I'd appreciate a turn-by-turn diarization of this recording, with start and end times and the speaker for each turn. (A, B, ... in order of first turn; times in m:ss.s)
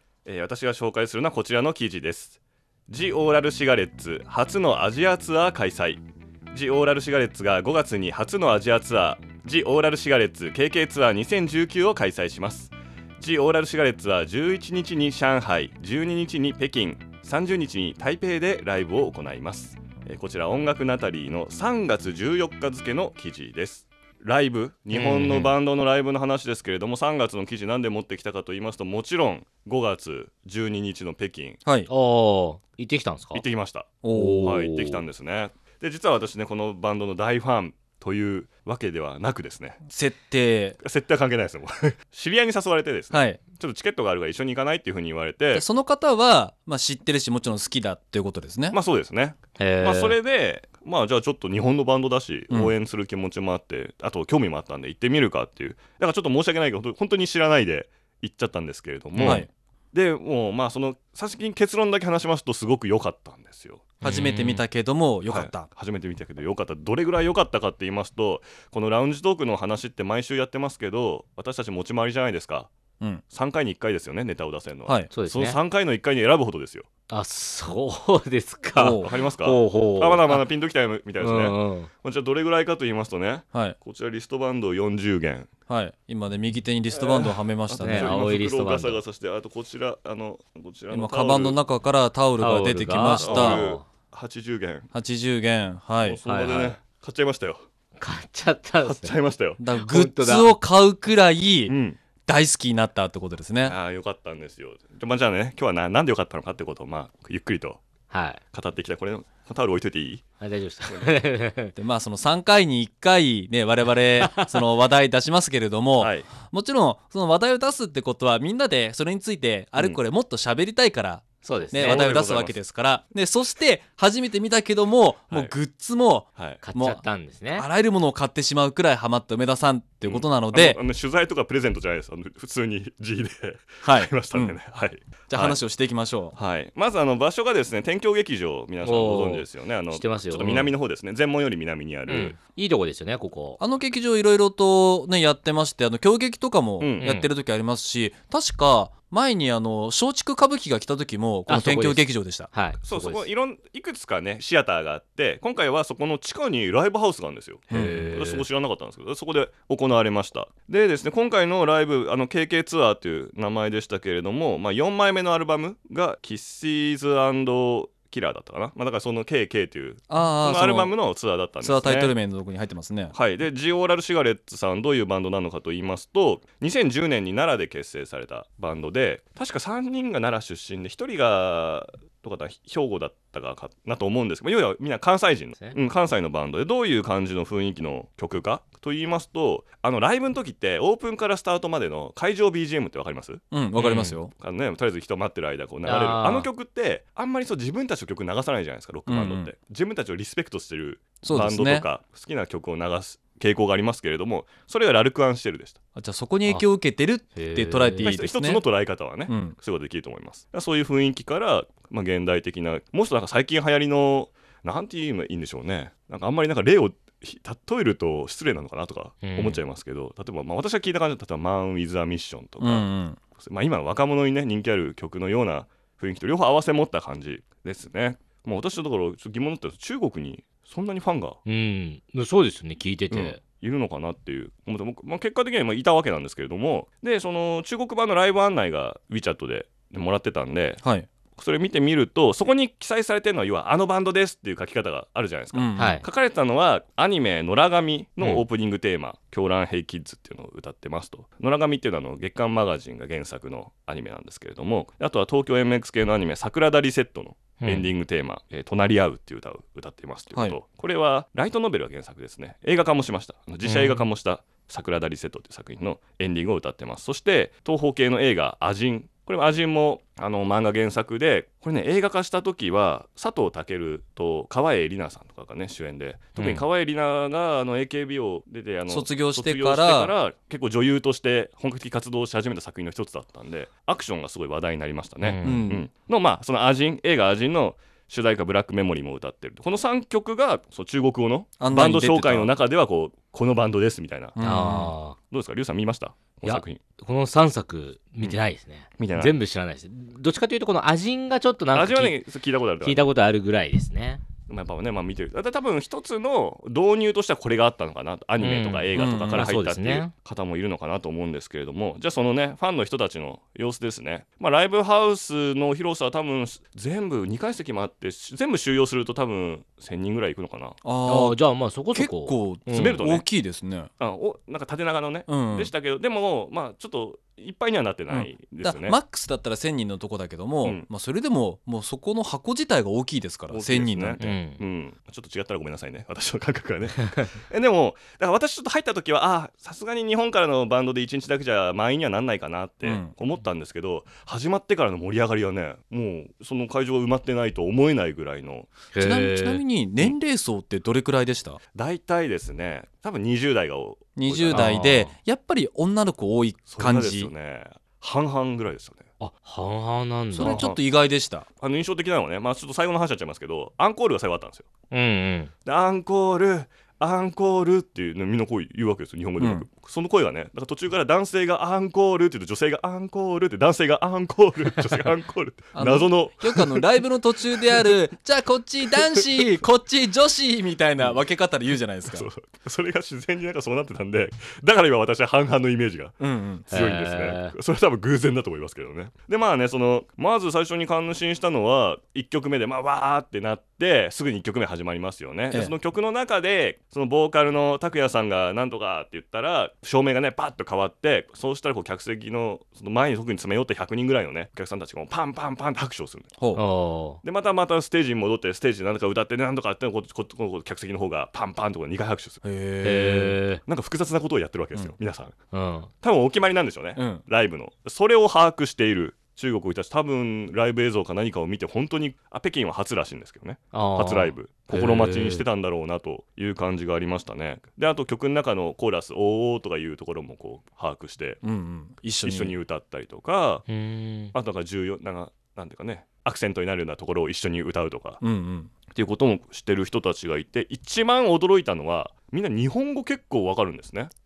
0:00.2-0:31.6 A
0:24.9-0:25.5 B
0:31.9-0:33.4 B
0:33.3-0:39.8 A
0:34.0-0:34.6 C
0:34.1-0:35.0 B
0:39.9-0:40.8 C
0:40.8-0:45.6 A
0:43.1-0:43.4 C
0:45.5-0:48.8 C
0:48.7-1:04.0 A
0:49.6-0:50.2 B
0:59.2-0:59.5 B
1:04.0-1:04.6 B
1:04.0-1:05.7 C
1:05.2-1:12.7 A
1:13.3-1:16.9 A
1:14.8-1:15.1 C
1:15.1-1:15.6 B
1:17.1-1:20.5 B
1:18.8-1:19.1 C
1:19.0-1:25.5 A
1:21.2-1:21.9 B
1:25.7-1:28.2 C
1:26.9-1:31.6 A
1:27.8-1:29.0 B
1:30.9-1:33.7 C
1:32.4-1:33.8 B
1:33.1-1:34.9 A
1:34.9-1:36.2 C
1:36.0-1:37.6 A
1:36.2-1:36.8 B
1:38.0-1:39.1 B
1:38.8-1:39.6 A
1:39.6-1:41.8 C
1:39.8-1:40.6 B
1:41.7-1:42.0 A
1:42.3-1:43.8 C
1:43.6-1:47.8 A
1:48.1-1:48.4 B
1:48.5-1:50.2 A
1:50.4-1:51.7 B
1:50.8-1:51.1 A
1:51.8-2:10.8 C
1:53.9-1:54.8 B
1:56.0-1:56.3 A
2:01.4-2:02.1 B
2:01.7-2:02.6 A
2:06.4-2:06.6 A
2:06.6-2:07.6 B
2:10.0-2:15.6 A
2:13.8-2:14.6 C
2:15.3-2:16.4 C
2:16.3-2:22.4 A
2:18.8-2:20.7 B
2:22.1-2:23.6 B
2:23.6-2:32.5 C
2:26.8-2:27.1 A
2:27.0-2:27.3 B
2:31.5-2:33.3 B
2:32.8-2:52.1 A
2:37.7-2:38.4 B
2:37.7-2:38.1 C
2:50.1-2:50.9 C
2:51.6-2:53.1 C
2:53.1-3:13.4 A
3:13.5-3:14.3 C
3:13.8-3:14.2 B
3:14.3-3:25.8 A
3:15.8-3:16.5 B
3:19.1-3:19.5 C
3:21.2-3:21.8 C
3:25.9-3:28.6 C
3:27.3-3:28.2 B
3:28.0-3:51.4 A
3:29.3-3:29.6 C
3:39.2-3:39.6 B
3:42.6-3:43.2 C
3:51.4-3:53.4 B
3:53.1-4:00.8 A
4:00.8-4:01.1 C
4:01.4-4:54.4 A
4:05.5-4:06.0 C
4:05.8-4:06.0 B
4:17.6-4:17.9 B
4:23.6-4:24.1 B
4:36.4-4:36.6 B
4:38.9-4:40.1 C
4:45.2-4:45.6 B
4:45.4-4:45.9 C
4:51.6-4:52.5 C
4:54.4-4:54.9 C
4:54.4-4:55.2 B
4:55.3-4:56.8 A
4:56.4-5:04.2 B
4:59.0-4:59.4 A
5:01.7-5:03.0 A
5:04.5-5:20.8 A
5:08.4-5:10.1 B
5:09.0-5:09.5 C
5:20.8-5:21.4 C
5:21.0-5:23.1 B
5:21.9-5:23.9 C
5:22.7-5:23.2 A
5:24.0-5:29.0 A
5:25.3-5:25.7 C
5:28.1-5:34.4 C
5:33.5-5:48.7 A
5:34.2-5:34.6 B
5:42.8-5:43.1 C
5:48.9-5:49.6 B
5:49.0-5:51.6 C
5:51.7-5:54.7 A
5:54.2-5:57.3 C
5:54.5-5:55.1 B
5:56.7-5:59.1 A
5:59.2-6:00.7 B
6:00.3-6:00.8 A
6:00.3-6:01.4 C
6:01.6-6:04.7 A
6:04.9-6:05.5 B
6:05.6-6:17.0 A
6:09.4-6:09.6 C
6:15.7-6:22.3 C
6:17.5-6:17.9 A
6:18.9-6:19.4 A
6:22.0-6:26.2 A
6:26.2-6:26.7 C
6:26.7-6:46.3 A
6:26.7-6:27.5 B
6:46.4-6:46.6 C
6:46.5-6:47.2 B
6:47.2-6:52.4 A
6:52.4-6:53.4 C
6:52.8-6:53.6 B
6:53.7-6:55.3 A
6:55.5-6:55.9 B
6:56.0-7:11.4 A
6:56.9-6:57.2 C
7:03.7-7:05.4 B
7:11.4-7:12.6 C
7:12.2-7:13.6 A
7:13.7-7:14.3 B
7:14.3-7:18.2 A
7:18.2-7:18.7 C
7:18.9-7:24.1 A